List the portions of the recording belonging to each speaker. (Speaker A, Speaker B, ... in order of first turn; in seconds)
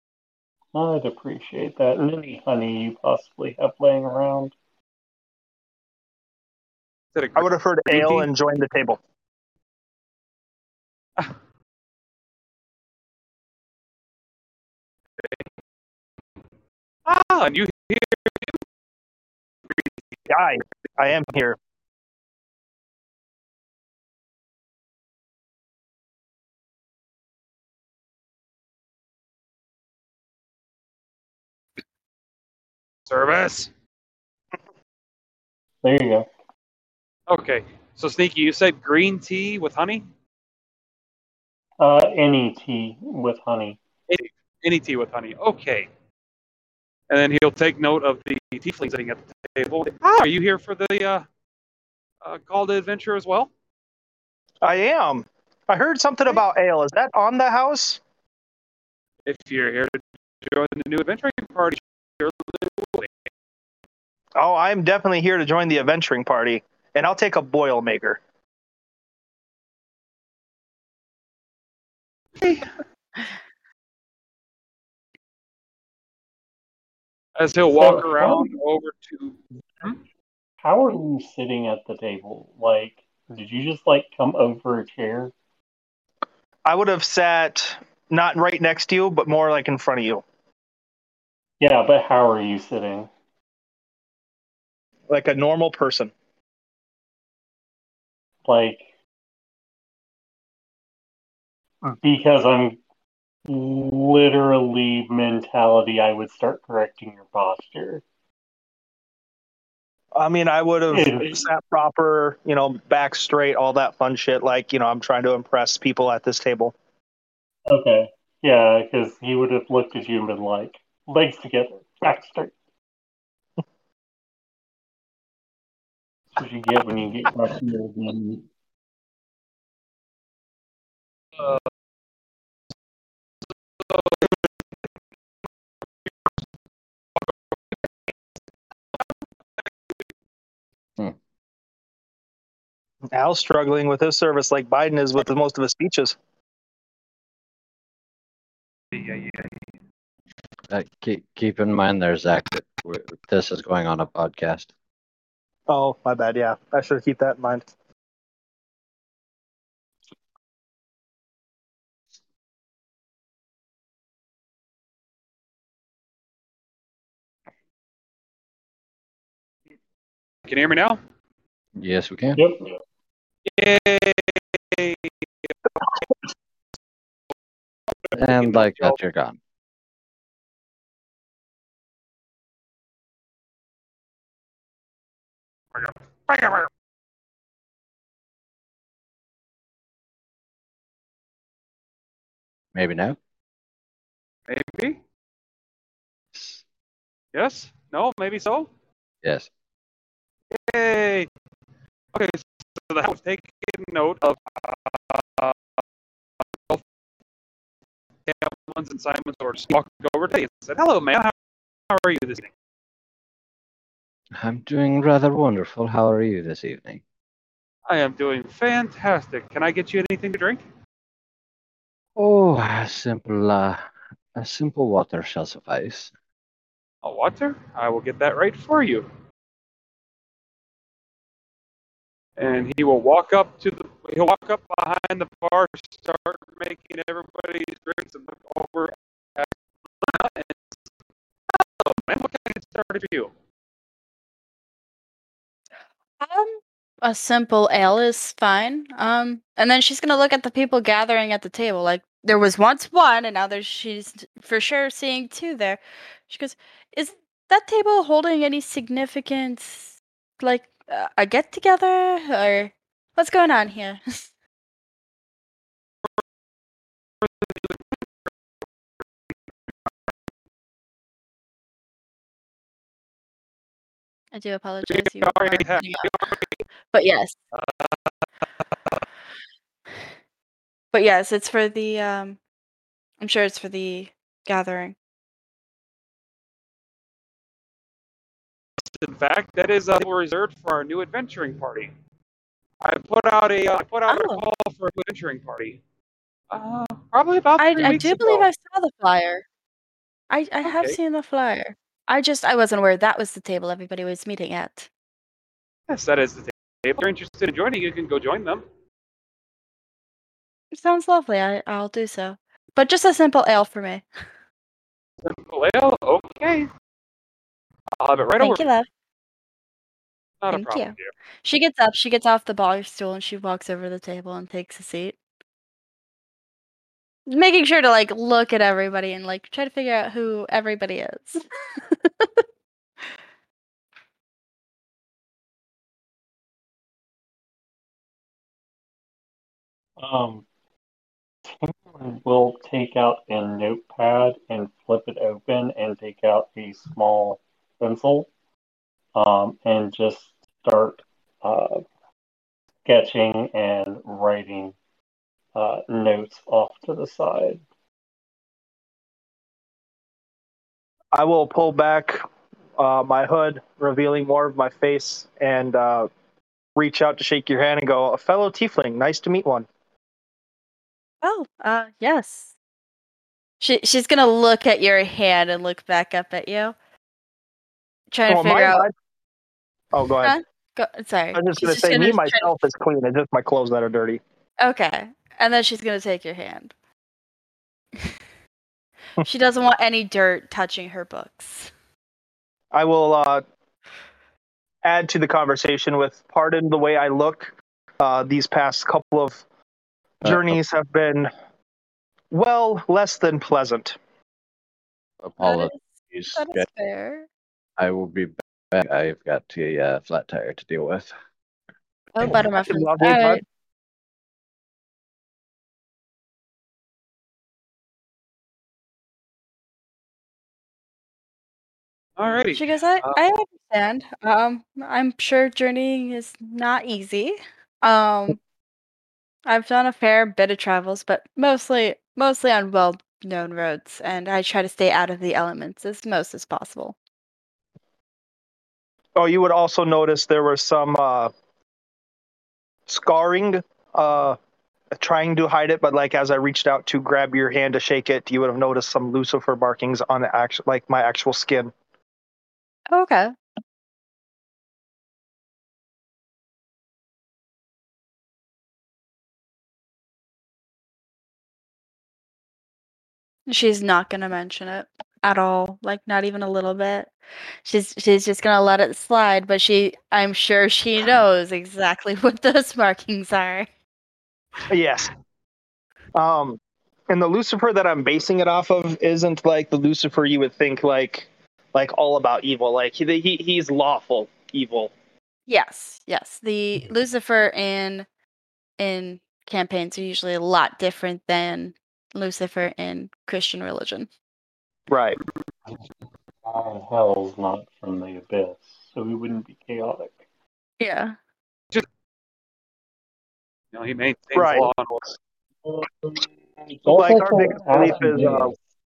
Speaker A: 0.7-4.5, 35.8-36.3, 41.8-43.8, 77.7-78.5, 80.6-85.3, 91.6-93.1, 98.4-98.9, 101.8-102.8, 103.5-108.0, 110.9-111.5, 117.7-122.5, 126.3-128.4, 172.3-172.7, 340.0-340.4, 341.5-348.3, 349.1-351.9, 352.8-354.8, 355.5-357.6, 496.4-500.2, 505.6-508.5
Speaker B: 7.1-8.3, 17.1-18.5, 33.1-33.7, 37.3-40.1, 44.1-45.9, 47.1-51.2, 52.2-53.5, 59.2-63.1, 72.4-72.7, 77.4-80.0, 131.4-131.6, 133.8-134.4, 148.9-149.7, 170.4-171.0, 173.5-175.5, 178.0-179.0, 185.7-186.7, 194.5-195.0, 197.3-198.7, 200.5-201.3, 202.1-205.6, 208.3-211.3, 211.9-212.5, 217.9-220.6, 227.0-229.1, 232.4-239.5, 240.0-240.6, 241.5-243.3, 267.2-268.0, 274.8-276.6, 277.5-278.1, 288.9-291.9, 292.8-295.8, 296.5-298.5, 300.6-301.0, 305.9-308.6, 315.2-316.7, 318.0-318.7, 320.4-321.1, 422.2-423.2, 503.7-505.2
Speaker C: 7.3-9.0, 20.3-21.6, 54.6-58.0, 64.3-68.2, 86.6-90.2, 95.1-96.1, 110.1-116.8, 143.1-146.2, 155.7-157.7, 361.1-362.2, 362.8-366.1, 366.8-369.7, 378.3-378.9, 379.9-380.4, 381.3-384.2, 392.7-393.4, 394.8-399.4, 400.2-401.3, 402.3-404.0, 412.6-413.4, 439.1-441.3, 442.9-444.4, 444.9-451.7, 474.7-475.1, 476.1-484.9, 494.9-495.2, 504.3-504.7, 506.9-508.5
Speaker D: 150.7-154.7, 171.8-172.4, 178.1-179.4, 192.7-193.2, 196.3-196.6, 199.2-199.5, 214.3-217.0, 222.2-223.8, 224.3-226.1, 400.2-400.6, 405.2-406.7, 407.8-411.1
Speaker E: 246.2-264.0, 274.3-276.2, 276.9-277.3, 280.9-282.4, 283.2-284.9, 294.1-294.4, 297.6-299.4, 300.3-304.9, 310.7-314.0, 318.4-318.9, 320.5-325.1, 327.3-332.4, 371.2-372.5, 373.6-376.7, 378.1-378.8, 380.2-382.5, 384.6-386.7, 389.2-391.7, 405.4-405.8, 406.3-407.3, 412.1-413.4, 422.5-428.4, 429.5-436.9, 452.9-453.3, 463.5-473.7, 485.5-488.1, 488.8-494.1, 500.8-501.1